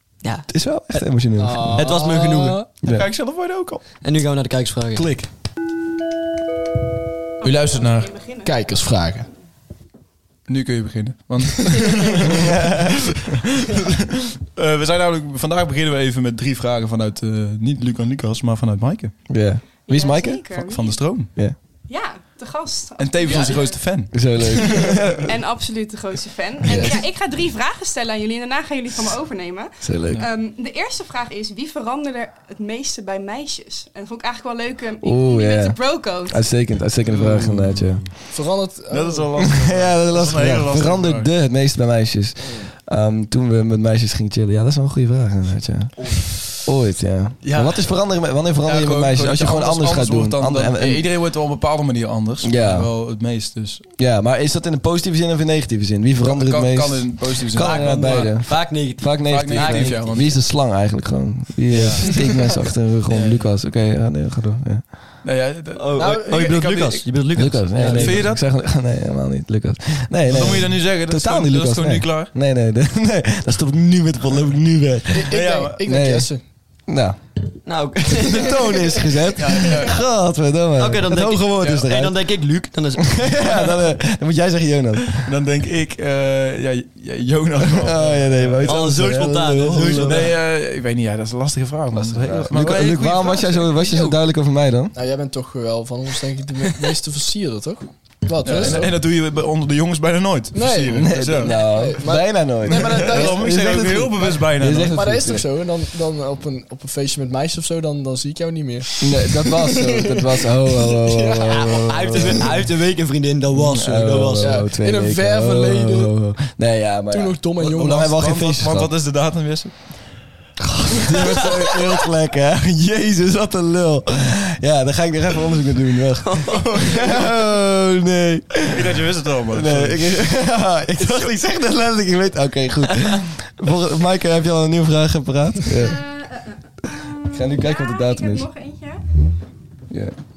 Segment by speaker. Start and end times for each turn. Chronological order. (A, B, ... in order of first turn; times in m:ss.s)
0:00.2-0:00.5 A
0:00.5-0:01.9 B
0:01.4-0:02.7 C
0:01.8-0:02.6 A
0:02.8-0:03.1 B
0:02.8-0:03.9 D
0:04.0-0:05.1 A
0:05.0-0:05.3 B
0:07.4-0:08.2 D
0:07.4-0:08.5 E
0:08.4-0:09.3 C
0:10.5-0:19.2 D
0:12.3-0:13.0 B
0:19.3-0:20.4 B
0:19.8-0:21.3 E
0:20.5-0:21.3 D
0:21.9-0:36.5 E
0:23.0-0:25.2 D
0:24.1-0:25.3 B
0:26.6-0:27.0 B
0:29.8-0:30.2 B
0:35.0-0:38.1 B
0:37.0-0:38.2 D
0:38.3-0:39.3 C
0:38.9-0:41.3 D
0:39.4-0:51.0 B
0:46.0-0:46.5 D
0:47.4-0:47.9 D
0:48.6-0:53.8 D
0:52.4-0:52.9 B
0:54.0-1:04.9 B
0:56.2-0:58.3 D
0:57.6-1:00.3 A
0:59.3-1:00.3 D
1:01.7-1:02.2 D
1:02.0-1:02.3 C
1:03.1-1:03.5 D
1:05.2-1:07.1 D
1:05.8-1:08.3 A
1:06.0-1:06.3 C
1:07.4-1:15.3 B
1:07.8-1:08.4 D
1:10.3-1:12.3 D
1:15.1-1:16.4 C
1:15.3-1:15.8 D
1:15.8-1:16.3 B
1:16.9-1:17.2 B
1:17.6-1:19.1 A
1:18.2-1:22.2 B
1:19.4-1:20.0 D
1:20.8-1:23.3 A
1:23.0-1:25.3 B
1:25.2-1:28.8 D
1:27.7-1:30.3 B
1:28.6-1:30.3 A
1:29.8-1:33.8 D
1:31.9-1:34.9 B
1:33.8-1:34.1 A
1:35.0-1:38.9 C
1:38.4-1:41.9 D
1:38.6-1:38.8 B
1:40.5-1:43.4 C
1:41.0-1:45.5 B
1:42.7-1:45.0 D
1:44.9-1:52.5 C
1:49.0-1:52.6 B
1:51.5-1:54.6 A
1:53.5-1:58.9 B
1:54.4-1:56.1 C
1:57.1-1:58.2 C
1:57.6-2:00.0 D
2:00.6-2:16.0 B
2:06.2-2:07.0 A
2:08.7-2:10.1 D
2:15.8-2:19.1 E
2:17.3-2:18.5 B
2:19.9-2:20.2 B